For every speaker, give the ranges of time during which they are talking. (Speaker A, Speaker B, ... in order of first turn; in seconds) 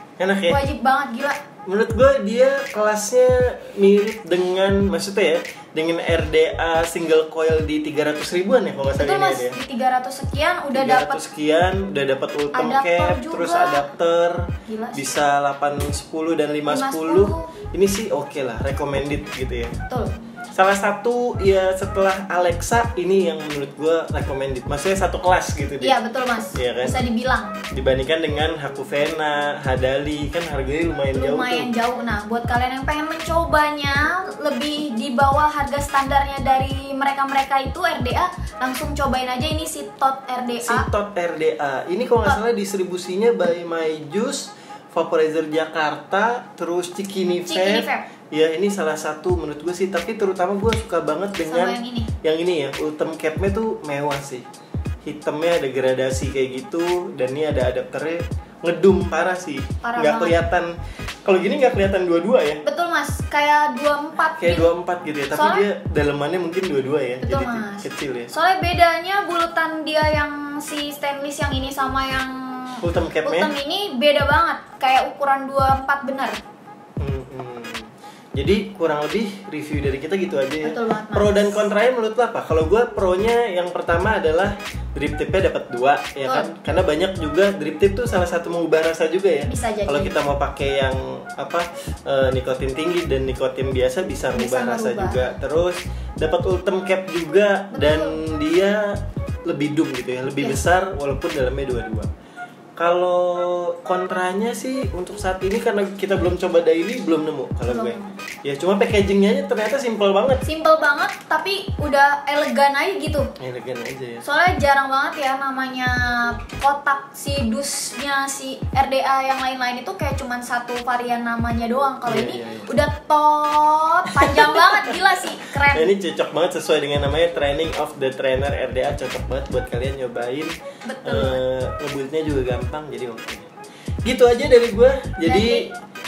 Speaker A: 0.2-0.6, 1.7-9.6, 10.7-19.8, 20.5-26.0, 26.5-27.0, 27.7-31.7, 40.6-54.5, 55.0-60.7, 61.2-62.6, 64.4-68.3, 72.8-73.5, 77.0-102.1, 102.8-110.4, 113.4-114.2, 122.1-122.7, 124.2-125.0, 125.7-130.5, 131.1-133.5, 134.1-135.7
Speaker B: 0.5-1.4, 9.0-11.2, 12.5-13.9, 14.7-15.1, 16.7-17.5, 19.9-20.1, 25.8-27.6, 31.1-40.9, 47.5-48.1, 51.5-52.1, 59.8-60.4, 62.6-64.7, 65.3-65.7, 67.2-76.4, 80.6-81.6, 86.2-86.5, 89.5-90.2, 94.3-95.3, 97.7-98.2, 107.7-108.2, 110.4-113.3, 114.2-125.9, 130.8-131.4, 135.2-135.8